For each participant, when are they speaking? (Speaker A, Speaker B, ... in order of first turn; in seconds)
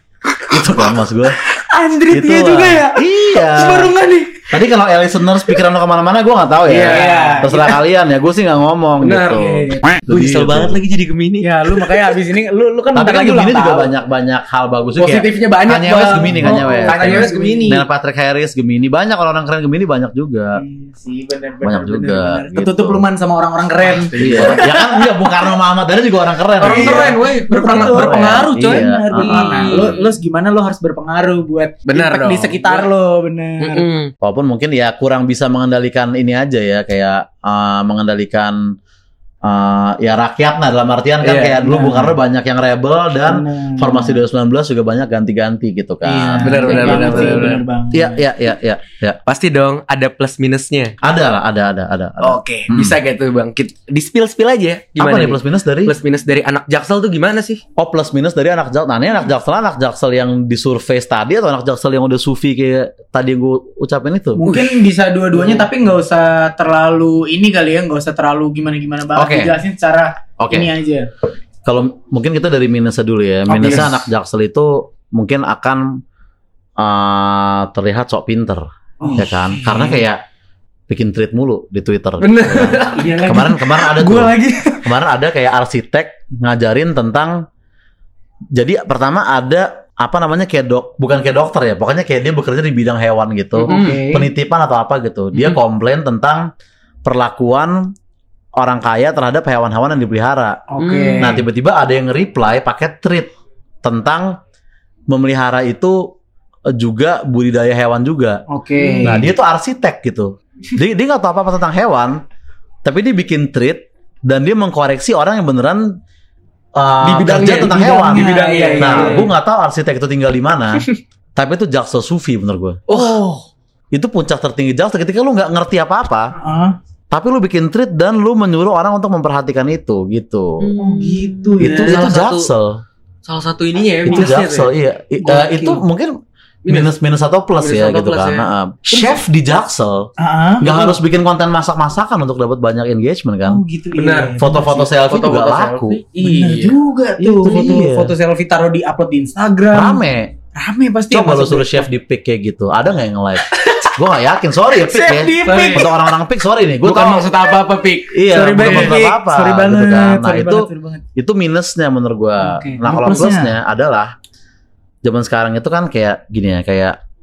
Speaker A: 0.5-1.4, 2.1-3.9, 4.5-10.8, 12.9-20.6, 21.6-23.0, 24.2-27.2, 27.7-29.9, 34.2-38.6, 39.5-49.2, 51.0-53.0, 55.0-56.0, 57.8-64.4, 69.2-69.5, 70.4-70.7, 71.7-76.0, 76.8-80.2, 80.9-87.4, 88.5-96.5, 97.0-97.9, 98.6-100.6, 101.2-103.3, 103.8-104.4, 105.1-106.1, 106.7-108.4, 109.0-112.2, 112.8-115.9, 116.8-122.8, 123.9-126.3, 127.1-130.7, 131.6-132.8, 134.1-136.2, 136.7-140.1, 140.6-143.6, 144.4-146.0, 147.2-148.1, 149.7-150.3, 151.1-157.3, 158.1-164.1, 165.0-167.0
Speaker B: 1.6-4.5, 6.8-7.8, 11.4-13.9, 16.2-17.8, 20.5-24.7, 26.6-33.9, 41.6-42.1, 43.3-44.2, 46.0-48.2, 64.4-71.1, 73.5-73.9, 79.0-80.0, 82.9-84.9, 93.7-94.3, 100.7-101.4, 108.5-109.3, 117.4-119.3, 122.9-123.4, 126.4-126.8, 130.8-132.1, 135.2-135.8, 138.9-139.2, 140.2-141.0, 143.5-144.9, 146.2-150.0, 150.6-151.9, 154.7-155.9, 158.3-161.0, 162.4-163.5
Speaker C: 6.7-7.5, 9.0-12.1, 15.0-17.8, 23.9-25.1, 26.6-30.1, 31.9-32.9, 33.6-34.1, 41.2-41.6, 46.4-47.6, 49.3-51.0, 52.2-57.6, 64.5-64.7, 65.4-65.6, 73.5-74.0, 82.2-83.1, 93.7-94.0, 95.3-95.6, 100.8-101.4, 108.8-109.2, 117.0-119.3, 122.9-123.2, 130.6-132.5, 133.3-134.7, 136.7-136.9, 137.6-138.5, 143.9-144.4, 145.0-146.8, 155.4-155.9, 156.8-159.0